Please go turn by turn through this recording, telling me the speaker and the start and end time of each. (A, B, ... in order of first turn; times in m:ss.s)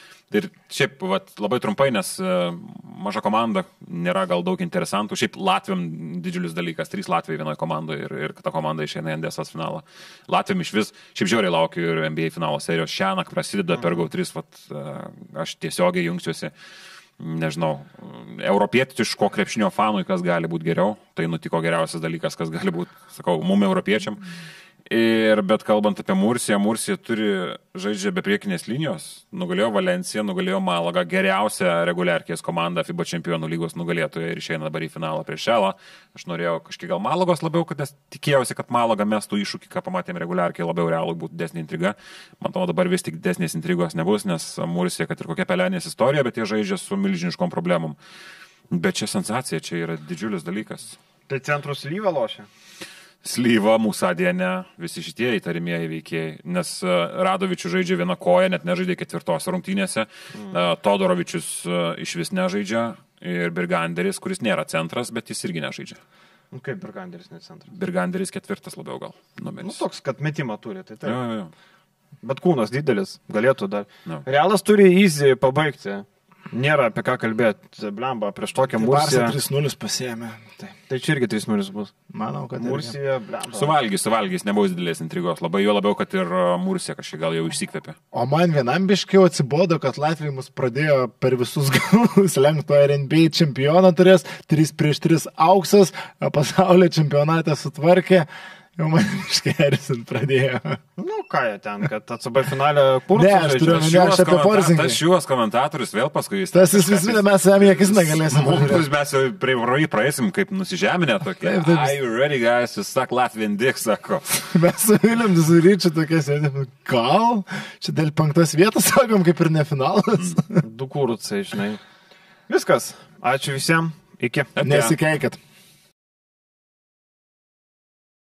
0:00.3-0:16.5 A
0:17.2-0:24.2 A
0:24.9-0:48.0 A
0:48.7-0:51.0 A
0:51.3-0:52.5 B
0:53.2-1:06.0 A
1:00.3-1:00.6 B
1:06.5-1:07.7 B
1:07.7-1:09.8 A
1:09.6-1:11.2 B
1:11.0-1:11.5 A
1:12.2-1:19.4 B
1:18.8-1:20.6 C
1:20.9-1:21.9 B
1:22.1-1:22.9 C
1:22.6-1:23.8 B
1:23.5-1:28.0 A
1:28.1-1:40.8 C
1:41.0-1:43.9 B
1:43.1-1:45.0 C
1:43.6-1:54.4 A
1:46.5-1:48.8 C
1:51.4-1:52.0 C
1:54.4-2:00.6 C
2:00.6-2:01.8 B
2:02.5-2:05.0 B
2:04.6-2:05.4 C